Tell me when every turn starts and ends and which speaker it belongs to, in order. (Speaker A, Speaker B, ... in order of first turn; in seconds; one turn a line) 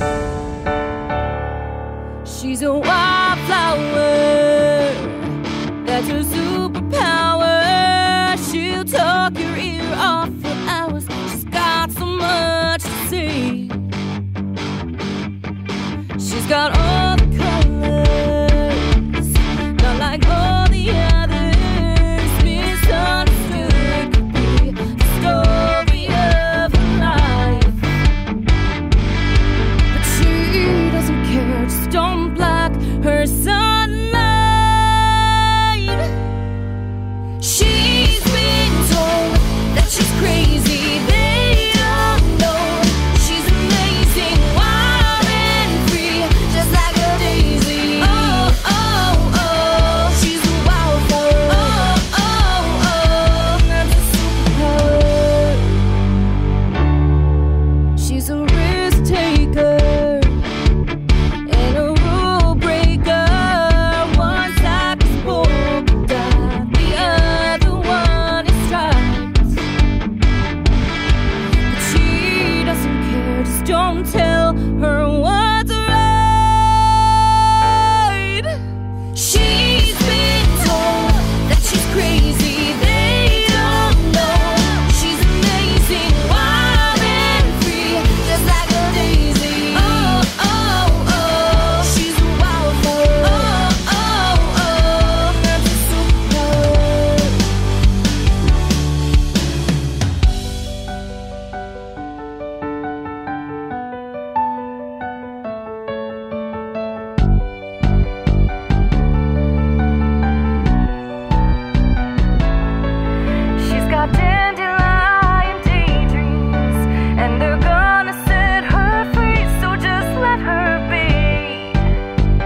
Speaker A: 2.2-13.8
Speaker A: 16.2-27.8
Speaker A: 29.9-36.1
Speaker A: 37.4-55.8
Speaker A: 58.0-60.5
Speaker A: 61.5-69.6
Speaker A: 71.7-78.5
Speaker A: 79.1-97.4
Speaker A: 113.6-121.9